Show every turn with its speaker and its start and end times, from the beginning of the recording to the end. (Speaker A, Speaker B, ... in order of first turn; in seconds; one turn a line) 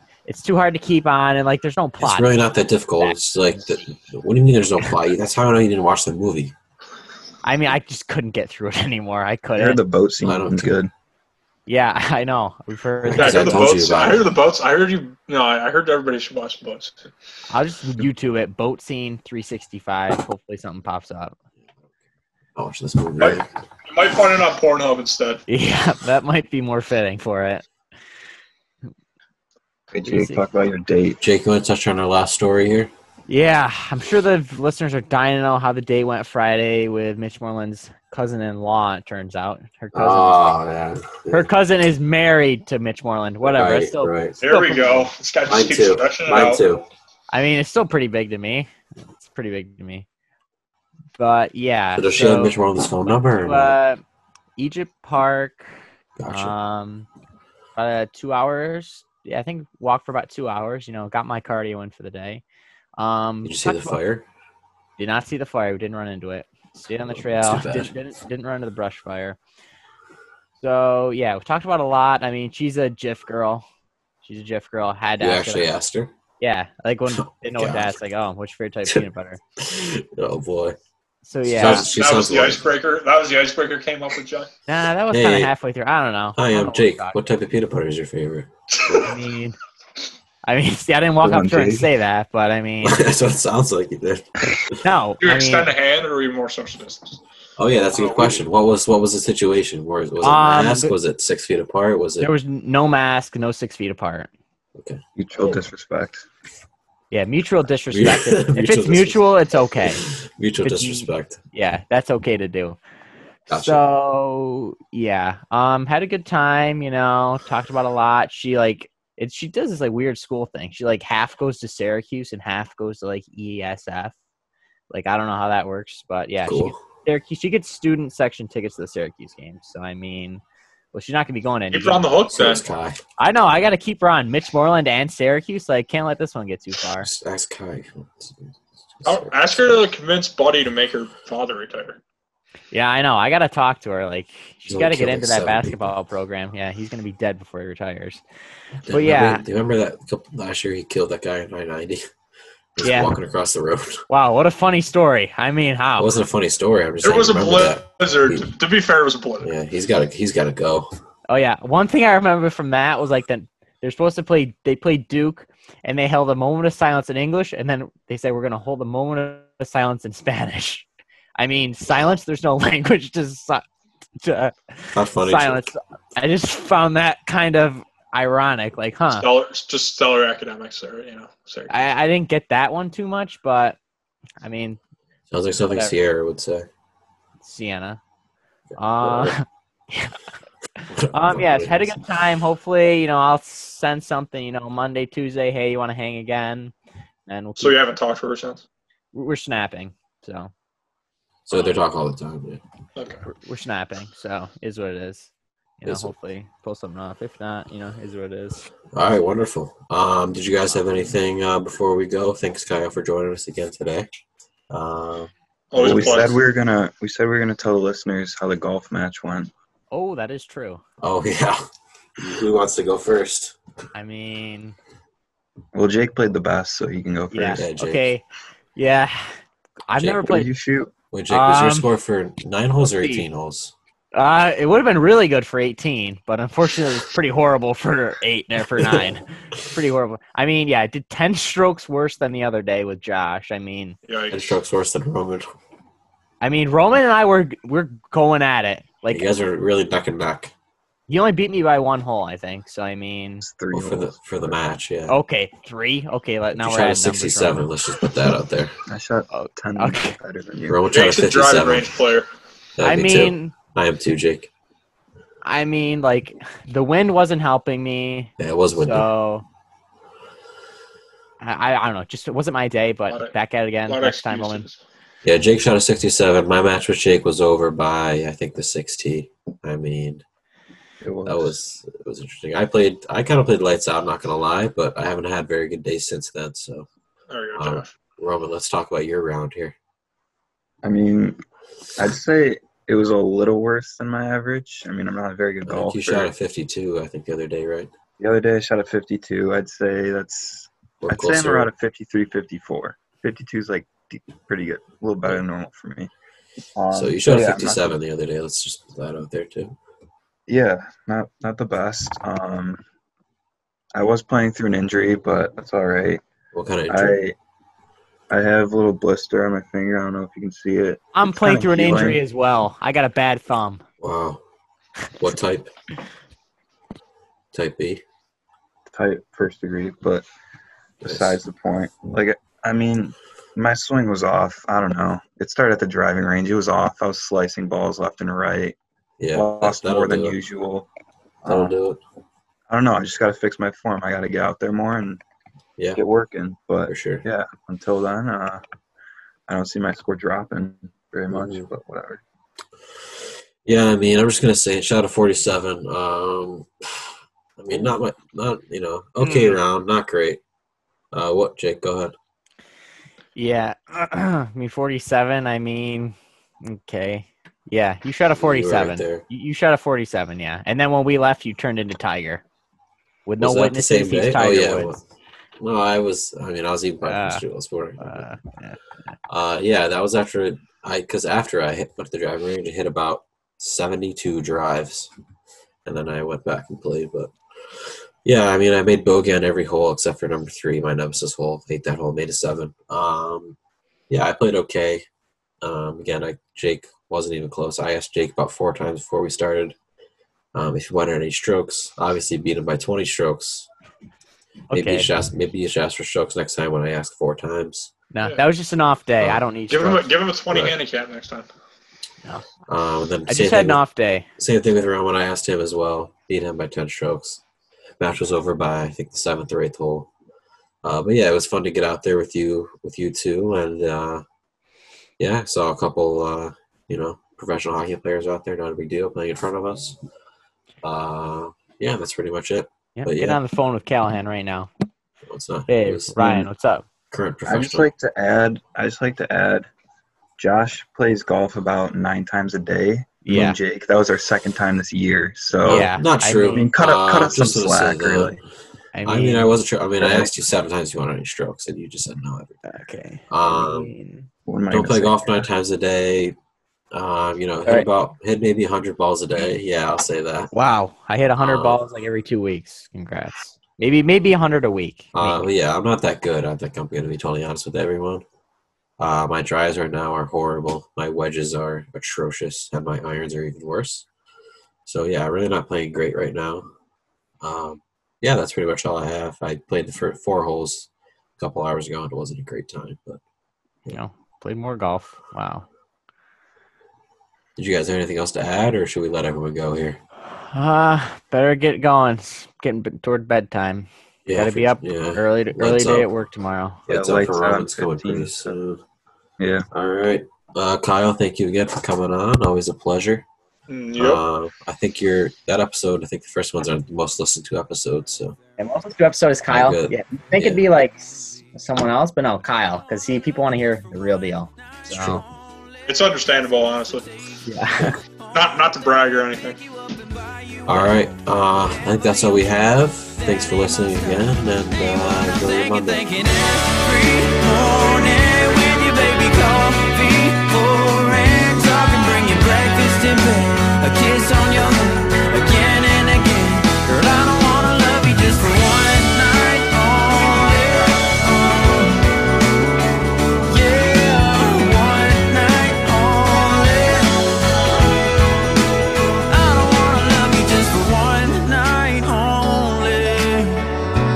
Speaker A: 0.3-2.4
Speaker B: 2.0-6.5
Speaker A: 7.4-9.8
Speaker C: 9.6-10.9
Speaker B: 10.2-10.8
Speaker A: 11.7-13.6
Speaker B: 13.0-14.3
Speaker D: 13.2-17.0
Speaker A: 17.5-21.3
Speaker B: 22.6-23.5
Speaker D: 23.2-25.4
Speaker A: 25.5-27.6
Speaker C: 29.9-31.2
Speaker A: 30.1-30.4
Speaker B: 31.2-32.9
Speaker A: 33.3-40.4
Speaker B: 39.9-41.5
Speaker A: 41.3-45.1
Speaker B: 43.4-44.4
Speaker D: 44.4-46.7
Speaker B: 45.5-46.9
Speaker A: 47.3-50.0
Speaker A: 51.2-52.5
Speaker B: 52.0-53.7
Speaker A: 53.4-54.0
Speaker A: 54.6-55.7
Speaker B: 56.2-56.5
Speaker A: 56.3-57.1
Speaker A: 57.8-62.4
Speaker A: 63.0-64.0
Speaker B: 63.4-64.2
Speaker A: 65.0-69.4
Speaker B: 67.1-68.0
Speaker A: 70.6-73.6
Speaker A: 74.2-75.6
Speaker B: 75.2-76.1
Speaker A: 76.4-79.4
Speaker B: 77.1-78.0
Speaker B: 79.6-80.8
Speaker A: 81.2-81.9
Speaker B: 81.4-82.6
Speaker D: 81.6-84.5
Speaker A: 84.7-87.2
Speaker B: 85.1-85.5
Speaker B: 86.4-88.5
Speaker D: 88.7-89.1
Speaker A: 89.0-89.5
Speaker A: 90.5-93.0
Speaker C: 91.2-91.9
Speaker B: 92.8-94.8
Speaker A: 94.8-95.7
Speaker D: 95.2-97.2
Speaker B: 97.6-102.3
Speaker D: 98.0-98.4
Speaker A: 100.2-100.9
Speaker A: 102.2-104.3
Speaker B: 104.8-105.6
Speaker C: 105.2-106.3
Speaker A: 107.1-110.0
Speaker B: 107.9-111.4
Speaker A: 110.6-112.8
Speaker A: 113.5-124.1
Speaker B: 113.5-113.8
Speaker A: 124.9-130.4
Speaker B: 126.5-126.8
Speaker A: 130.9-132.1
Speaker D: 131.7-132.7
Speaker B: 132.3-133.0
Speaker A: 133.2-137.1
Speaker B: 137.0-139.9
Speaker D: 139.1-142.0
Speaker A: 142.7-148.2
Speaker B: 144.7-145.9
Speaker B: 148.9-152.0
Speaker A: 148.9-149.4
Speaker B: 152.8-154.0
Speaker A: 152.8-153.1
Speaker A: 154.1-156.1
Speaker B: 156.0-158.5
Speaker D: 157.0-159.5
Speaker B: 159.4-160.9
Speaker A: 161.3-170.8
Speaker A: 171.4-173.6
Speaker A: 174.2-179.3
Speaker B: 174.9-175.7
Speaker D: 179.1-181.7
Speaker A: 181.7-183.8
Speaker A: 184.4-184.8
Speaker B: 185.3-186.7
Speaker A: 187.4-188.0
Speaker B: 188.7-189.3
Speaker A: 188.8-190.1
Speaker A: 190.8-196.7
Speaker B: 190.9-192.0
Speaker A: 197.3-197.8
Speaker D: 197.6-198.6
Speaker A: 199.1-200.5
Speaker B: 201.4-202.6
Speaker D: 203.0-203.3
Speaker A: 203.3-208.7
Speaker B: 205.9-206.1
Speaker B: 208.9-214.1
Speaker B: 214.7-216.1
Speaker D: 215.7-216.4
Speaker C: 215.8-219.5
Speaker A: 219.9-220.8
Speaker B: 221.0-221.7
Speaker B: 222.2-223.6
Speaker A: 223.9-224.8
Speaker C: 225.7-227.7
Speaker A: 227.3-228.2
Speaker B: 227.6-228.1
Speaker A: 228.8-229.4
Speaker A: 229.9-230.5
Speaker B: 230.0-230.3
Speaker C: 230.2-230.9
Speaker B: 231.1-233.7
Speaker A: 231.3-231.9
Speaker A: 232.8-233.3
Speaker A: 234.1-244.0
Speaker B: 238.8-239.0
Speaker D: 244.1-244.6
Speaker B: 244.3-245.5
Speaker A: 246.4-249.3
Speaker B: 249.1-250.5
Speaker A: 251.1-253.4
Speaker C: 253.4-254.6
Speaker B: 253.7-255.1
Speaker A: 255.1-257.7
Speaker B: 256.6-258.7
Speaker C: 258.9-260.8
Speaker A: 259.3-260.2
Speaker B: 260.7-261.9
Speaker D: 260.9-262.3
Speaker B: 262.8-264.5
Speaker A: 262.8-263.5
Speaker A: 265.4-269.4
Speaker B: 268.4-269.1
Speaker A: 271.4-274.7
Speaker D: 273.1-273.3
Speaker D: 273.9-274.8
Speaker B: 275.2-280.2
Speaker C: 281.0-281.6
Speaker B: 281.3-286.9
Speaker D: 287.3-287.9
Speaker B: 287.6-289.7
Speaker C: 290.8-291.4
Speaker C: 292.0-296.3
Speaker B: 295.6-297.9
Speaker C: 298.2-306.1
Speaker B: 301.0-301.7
Speaker C: 306.7-308.0
Speaker B: 306.9-309.8
Speaker C: 310.5-312.8
Speaker C: 313.9-316.2
Speaker B: 316.5-317.2
Speaker C: 316.9-317.4
Speaker C: 318.3-322.2
Speaker A: 321.1-323.8
Speaker B: 321.9-322.2
Speaker B: 324.0-324.4
Speaker B: 325.2-325.7
Speaker B: 327.5-328.0
Speaker C: 328.9-330.3
Speaker C: 331.0-338.8
Speaker B: 331.0-331.3
Speaker B: 339.2-340.4
Speaker C: 339.3-340.9
Speaker C: 341.4-341.8
Speaker B: 341.4-342.0
Speaker C: 342.7-345.2
Speaker C: 345.9-348.6
Speaker B: 346.9-347.2
Speaker C: 349.5-352.2
Speaker B: 351.3-351.6
Speaker B: 353.6-360.4
Speaker A: 359.2-359.6
Speaker B: 361.1-362.1
Speaker A: 363.4-372.4
Speaker B: 368.3-369.2
Speaker A: 373.3-375.0
Speaker B: 373.4-375.0
Speaker B: 375.6-378.3
Speaker A: 377.0-377.4
Speaker A: 378.0-378.8
Speaker B: 379.3-385.1
Speaker B: 385.9-393.6
Speaker B: 394.1-395.1
Speaker B: 395.6-399.8
Speaker B: 400.5-403.7
Speaker A: 404.7-405.1
Speaker B: 404.7-407.9
Speaker A: 408.1-410.1
Speaker D: 409.7-411.5
Speaker B: 412.7-413.8
Speaker A: 413.3-414.3
Speaker B: 414.4-417.4
Speaker B: 418.0-420.1
Speaker B: 420.8-424.2
Speaker B: 425.2-430.0
Speaker B: 430.8-433.4
Speaker A: 432.9-434.7
Speaker B: 435.3-436.3
Speaker A: 435.7-436.8
Speaker C: 436.2-436.4
Speaker B: 437.1-437.9
Speaker C: 437.4-439.7
Speaker C: 440.4-445.9
Speaker A: 443.2-443.6
Speaker B: 445.6-448.4
Speaker A: 445.6-446.7
Speaker C: 446.5-448.4
Speaker A: 448.9-449.5
Speaker B: 449.0-452.6
Speaker C: 450.0-450.3
Speaker A: 452.7-454.3
Speaker B: 453.3-453.9
Speaker C: 454.4-455.5
Speaker B: 454.7-456.4
Speaker B: 456.9-460.5
Speaker A: 460.5-465.5
Speaker B: 461.4-461.8
Speaker B: 465.1-468.2
Speaker B: 469.0-474.1
Speaker B: 474.9-476.7
Speaker B: 477.4-483.2
Speaker A: 483.9-485.7
Speaker B: 487.6-490.0
Speaker A: 490.5-496.8
Speaker B: 494.3-496.1
Speaker B: 496.9-498.8
Speaker C: 496.9-498.5
Speaker C: 499.4-499.6
Speaker B: 499.7-503.3
Speaker D: 503.7-504.2
Speaker B: 504.0-508.4
Speaker A: 508.6-515.2
Speaker B: 509.5-510.6
Speaker B: 514.9-515.2
Speaker D: 515.9-517.1
Speaker A: 517.5-518.0
Speaker E: 518.3-518.6
Speaker D: 518.3-519.6
Speaker E: 519.9-520.9
Speaker B: 520.7-526.1
Speaker E: 525.3-542.1
Speaker E: 543.4-547.4
Speaker E: 549.3-553.6